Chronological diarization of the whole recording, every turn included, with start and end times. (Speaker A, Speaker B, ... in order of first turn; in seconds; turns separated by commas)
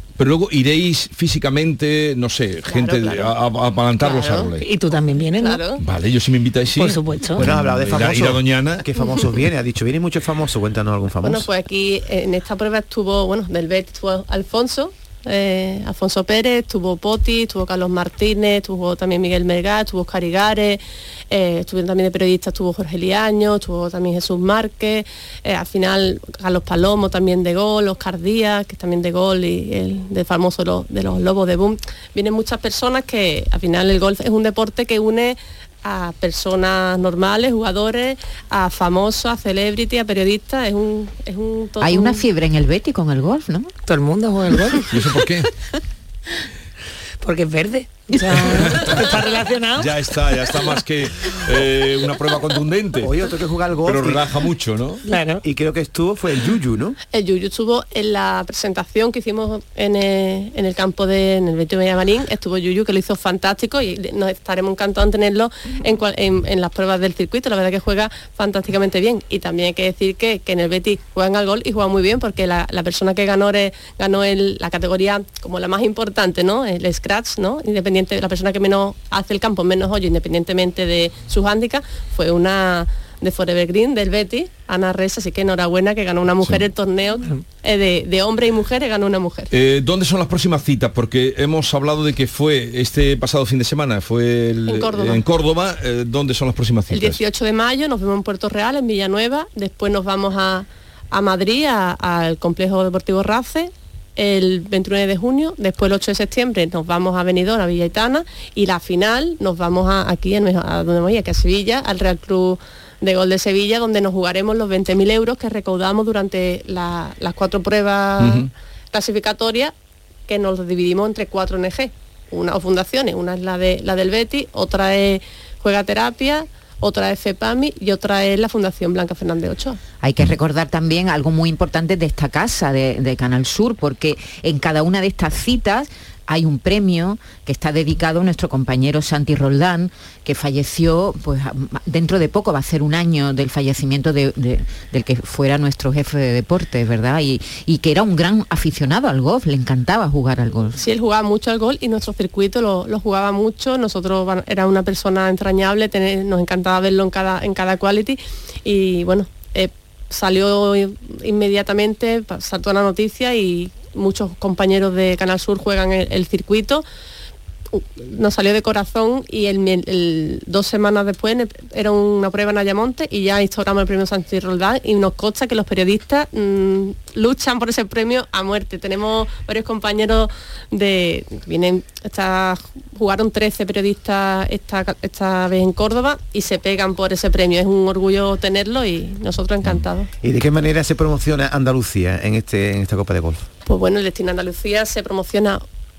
Speaker A: 0.2-4.7, Speaker B: 2.6-3.3, Speaker B: 4.0-4.5, Speaker C: 4.6-5.6, Speaker B: 5.2-5.8, Speaker A: 5.8-8.8, Speaker C: 6.8-7.5, Speaker D: 7.4-11.5, Speaker B: 11.2-42.2, Speaker E: 41.8-43.7, Speaker C: 43.9-44.9, Speaker A: 44.9-45.5, Speaker C: 47.2-50.0, Speaker A: 48.5-49.0, Speaker A: 49.8-53.1, Speaker D: 53.0-54.3, Speaker A: 53.8-55.0, Speaker C: 55.1-55.5, Speaker D: 55.4-57.0, Speaker B: 57.1-89.5, Speaker A: 89.5-97.2, Speaker B: 94.7-95.2, Speaker B: 96.9-119.7, Speaker A: 118.2-118.5, Speaker B: 120.3-129.8, Speaker E: 130.0-150.8, Speaker B: 150.8-166.8, Speaker B: 167.7-190.1, Speaker D: 190.2-193.5, Speaker B: 193.7-195.6